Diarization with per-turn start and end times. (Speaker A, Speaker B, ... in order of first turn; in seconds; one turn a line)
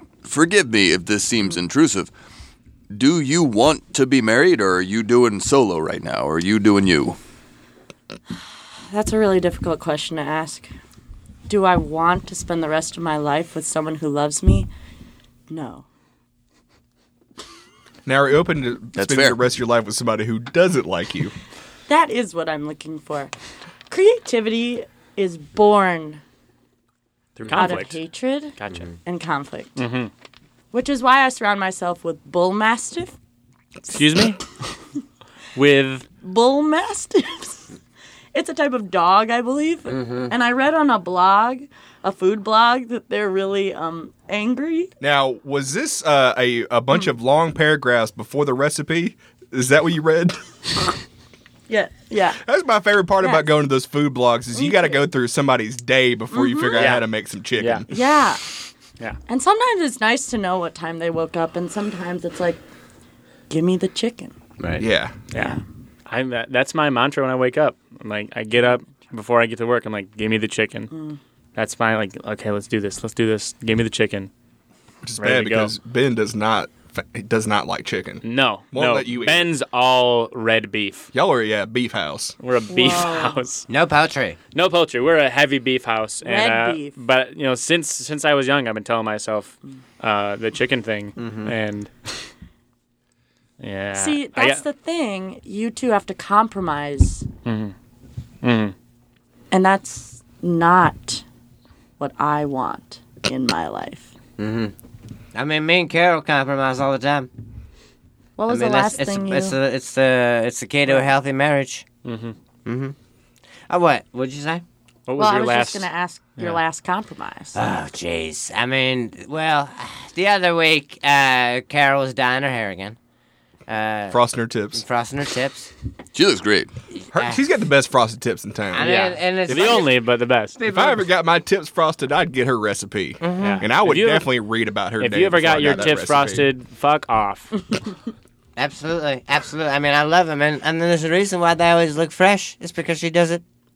Speaker A: 0.2-2.1
Speaker A: 2.9-7.2
Speaker B: 8.9-10.7
Speaker B: 11.5-14.7
Speaker B: 15.5-15.8
Speaker C: 18.0-21.3
Speaker A: 18.9-19.4
Speaker B: 21.9-23.3
Speaker B: 23.9-26.2
Speaker D: 27.4-28.0
Speaker B: 27.5-29.8
Speaker D: 28.6-28.9
Speaker D: 29.8-30.1
Speaker B: 30.7-33.1
Speaker D: 33.9-34.4
Speaker D: 35.5-36.1
Speaker B: 36.2-37.7
Speaker B: 38.3-44.9
Speaker E: 40.0-40.3
Speaker C: 45.0-50.4
Speaker B: 51.7-52.4
Speaker C: 52.4-57.9
Speaker B: 53.2-53.5
Speaker B: 54.5-55.0
Speaker B: 56.3-57.0
Speaker D: 56.8-57.0
Speaker D: 57.6-57.8
Speaker B: 57.9-58.4
Speaker B: 59.3-62.6
Speaker B: 63.5-64.3
Speaker C: 64.8-65.2
Speaker D: 65.3-70.9
Speaker B: 70.9-71.2
Speaker D: 71.5-74.3
Speaker C: 75.0-79.5
Speaker D: 75.2-75.7
Speaker D: 78.2-81.1
Speaker C: 81.1-82.3
Speaker D: 82.4-83.7
Speaker B: 82.7-83.4
Speaker E: 83.7-84.4
Speaker D: 84.5-92.3
Speaker B: 86.2-86.9
Speaker E: 91.2-91.5
Speaker D: 93.6-94.6
Speaker B: 93.9-97.3
Speaker D: 97.5-97.7
Speaker D: 98.4-98.7
Speaker B: 99.5-101.2
Speaker B: 102.0-104.1
Speaker E: 104.4-104.7
Speaker E: 105.3-107.3
Speaker B: 108.4-109.5
Speaker E: 108.5-111.8
Speaker D: 112.0-112.3
Speaker E: 112.7-112.9
Speaker E: 113.7-114.6
Speaker D: 115.1-116.6
Speaker B: 115.2-117.6
Speaker E: 117.5-123.0
Speaker E: 123.7-124.2
Speaker C: 124.1-124.8
Speaker E: 124.7-125.7
Speaker A: 126.1-126.7
Speaker E: 127.1-127.4
Speaker C: 127.1-128.9
Speaker E: 128.7-129.9
Speaker D: 128.8-130.7
Speaker C: 130.6-136.5
Speaker E: 133.2-133.6
Speaker D: 133.4-134.3
Speaker D: 135.0-137.5
Speaker E: 138.6-143.4